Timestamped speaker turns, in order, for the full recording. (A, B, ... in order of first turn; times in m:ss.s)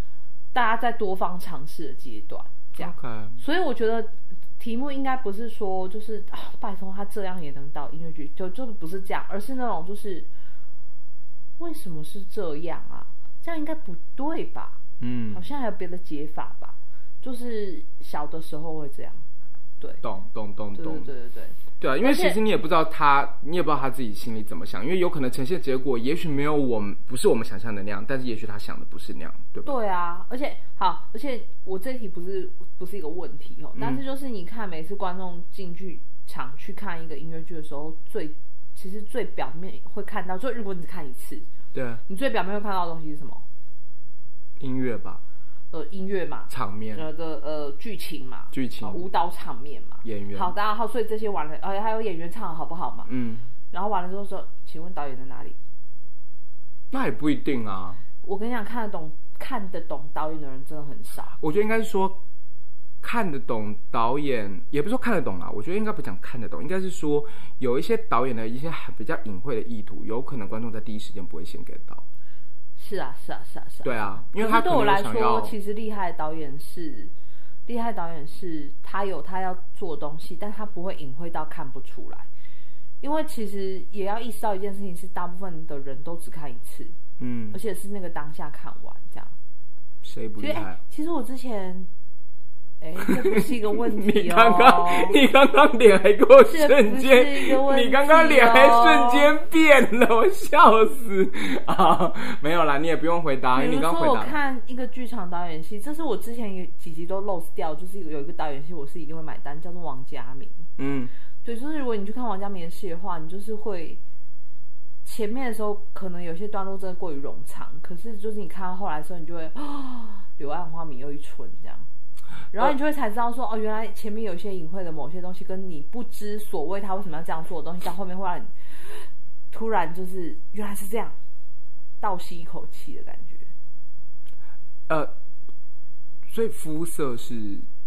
0:00.5-0:10.3 A
0:02.8-0:03.4 B
0:11.6-0:14.8 A
0:15.0-0:15.4 B
0:15.3-0:19.2 A
0:20.0-0:21.1 B
0:20.8-0:22.4 A
0:21.8-0:29.7 B
0:29.6-0:41.5 A
0:33.8-0:34.0 B
0:41.7-0:42.0 B
0:42.1-0:43.4 A
0:44.6-0:45.2 B
0:45.7-0:53.1 A
0:46.5-0:47.1 B
0:48.5-0:49.1 B
0:50.0-0:50.6 B
0:53.1-0:53.5 B
0:53.7-0:55.6 A
0:56.9-0:58.0 B
0:58.2-1:01.4 A
1:01.4-1:02.2 B
1:03.0-1:12.0 B
1:12.8-1:17.1 A
1:13.8-1:15.5 B
1:17.7-1:22.3 A
1:23.0-1:27.0 A
1:27.2-1:27.6 B
1:27.5-1:29.3 A
1:30.0-1:30.8 B
1:30.4-1:31.9 A
1:32.8-1:35.2 A
1:33.0-1:44.4 B
1:36.4-1:39.3 A
1:43.5-1:50.7 A
1:50.8-1:51.1 B
1:51.4-1:54.0 A
1:55.0-2:01.9 A
2:02.5-2:11.2 A
2:12.0-2:13.5 A
2:16.3-2:17.7 B